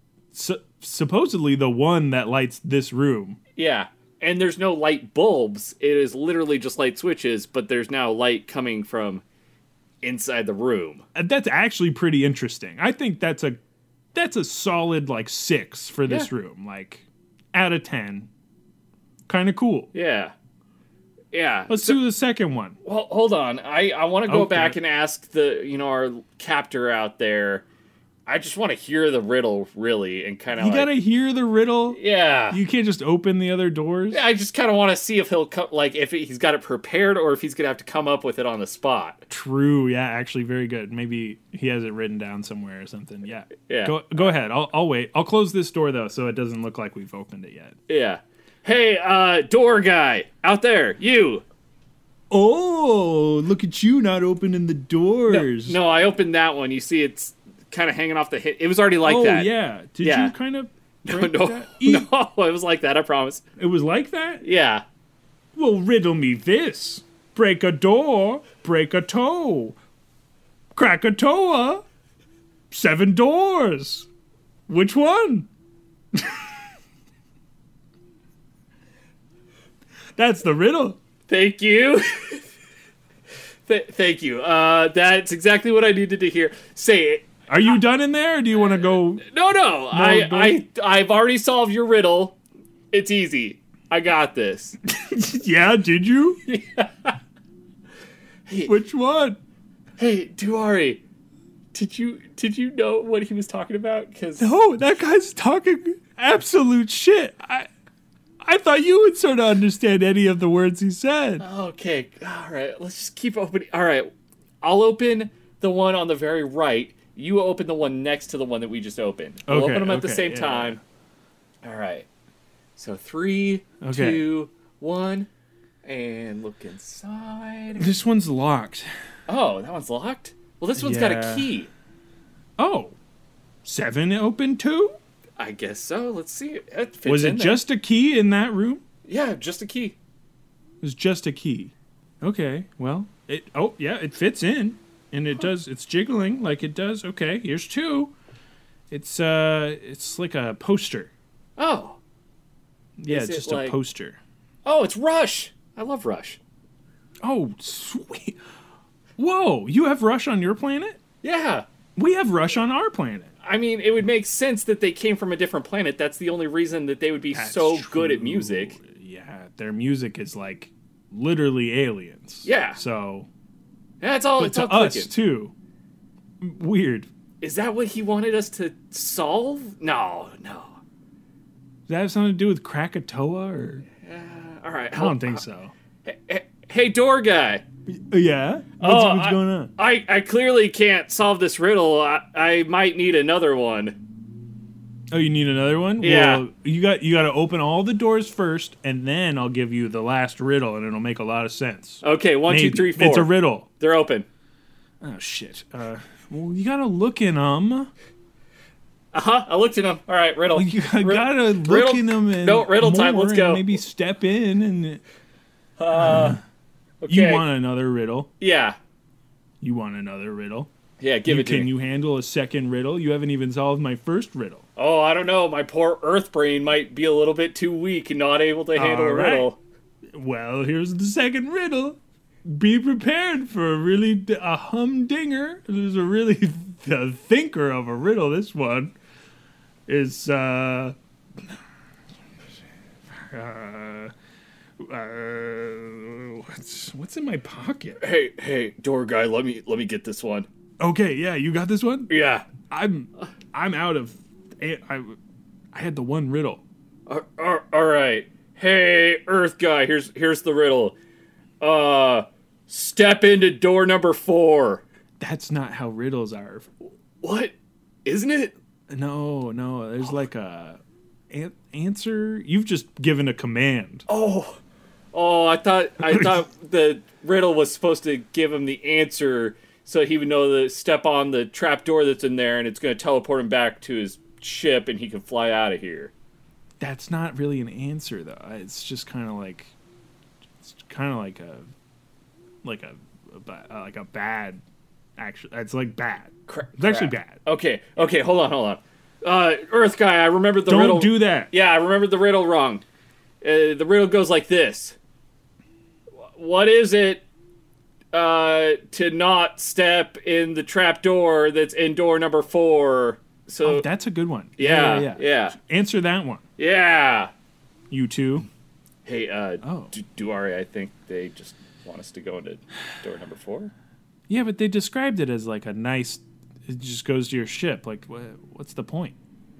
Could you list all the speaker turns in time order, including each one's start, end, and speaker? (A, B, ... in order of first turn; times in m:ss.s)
0:00.3-0:03.4 A
0:03.6-0:09.2 B
0:10.0-0:11.0 B
0:11.2-0:13.6 A
0:14.1-0:18.3 A
0:16.0-0:16.3 B
0:19.3-0:19.9 A
0:19.9-0:20.3 B
0:21.3-0:22.0 B
0:21.7-0:22.8 A
0:22.8-0:27.7 B
0:24.3-0:24.8 A
0:28.3-0:30.9 B
0:30.6-0:32.0 A
0:31.9-0:32.6 B
0:32.5-0:34.2 A
0:34.1-0:39.2 B
0:39.3-0:47.8 A
0:43.7-0:44.3 B
0:47.9-0:51.4 B
0:52.3-0:55.8 A
0:55.3-1:00.4 B
0:59.0-1:02.1 A
1:01.0-1:03.4 B
1:03.6-1:04.4 A
1:04.4-1:04.8 B
1:05.6-1:09.8 A
1:10.8-1:11.8 A
1:12.7-1:14.1 A
1:14.7-1:15.5 A
1:16.2-1:16.4 A
1:20.2-1:21.0 A
1:21.3-1:22.4 B
1:23.7-1:27.8 B
1:27.5-1:29.3 A
1:28.6-1:32.4 B
1:29.9-1:30.6 A
1:32.9-1:34.8 B
1:35.0-1:36.4 A
1:36.5-1:37.2 B
1:38.5-1:38.7 B
1:38.7-1:39.4 A
1:40.0-1:41.0 B
1:41.7-1:44.5 B
1:44.4-1:47.7 A
1:48.4-1:51.4 A
1:51.4-1:54.1 B
1:54.6-2:00.8 B
1:59.5-2:00.8 A
2:01.6-2:02.1 B
2:02.8-2:05.3 B
2:03.8-2:04.3 A
2:05.8-2:08.0 B
2:07.8-2:08.9 A
2:09.3-2:11.7 B
2:10.8-2:11.5 A
2:12.6-2:13.0 A
2:13.6-2:15.0 A
2:15.4-2:17.6 B
2:17.1-2:18.8 A
2:19.1-2:20.0 B
2:20.8-2:28.1 A
2:28.9-2:31.1 A
2:31.6-2:32.0 B
2:33.0-2:34.2 A
2:33.1-2:33.8 B
2:34.6-2:36.4 B
2:37.2-2:38.4 A
2:39.2-2:41.0 A
2:41.2-2:41.7 B
2:42.0-2:43.3 A
2:43.4-2:48.8 B
2:47.3-2:53.3 A
2:52.4-2:52.8 B
2:54.0-2:55.1 B
2:54.4-2:55.5 A
2:56.4-2:57.1 A
2:57.4-3:00.7 B
3:01.9-3:03.8 A
3:04.0-3:05.4 B
3:05.0-3:05.7 A
3:06.0-3:07.6 B
3:07.9-3:09.7 A
3:08.8-3:14.0 B
3:15.1-3:23.7 A
3:16.0-3:16.4 B
3:22.0-3:24.3 B
3:25.0-3:27.9 A
3:29.1-3:33.8 B
3:30.5-3:35.0 A
3:35.8-3:36.4 B
3:36.0-3:36.4 A
3:37.0-3:37.4 B
3:37.1-3:38.3 A
3:38.4-3:38.8 B
3:39.6-3:40.7 A
3:41.0-3:41.7 B
3:41.2-3:44.6 A
3:44.8-3:49.6 B
3:48.8-3:49.5 A
3:50.2-3:58.9 A
3:59.9-4:01.0 A
4:03.2-4:04.1 A
4:04.8-4:08.0 A
4:08.0-4:10.5 B
4:10.8-4:12.2 A
4:12.1-4:12.5 B
4:12.7-4:15.2 A
4:15.7-4:16.6 A
4:17.1-4:21.0 B
4:21.6-4:24.8 B
4:25.2-4:26.7 A
4:27.2-4:28.5 B
4:28.9-4:34.1 A
4:34.1-4:34.6 B
4:35.1-4:46.1 B
4:46.8-4:49.7 A
4:50.6-4:51.7 A
4:52.6-4:54.6 A
4:55.2-4:57.4 A
4:56.5-5:02.8 B
5:00.7-5:01.5 A
5:03.4-5:05.0 B
5:06.3-5:07.2 B
5:08.1-5:13.9 B
5:13.6-5:16.4 A
5:14.6-5:15.6 B
5:16.6-5:17.3 B
5:17.9-5:18.5 A
5:19.0-5:23.7 B
5:19.6-5:19.9 A
5:24.3-5:29.2 A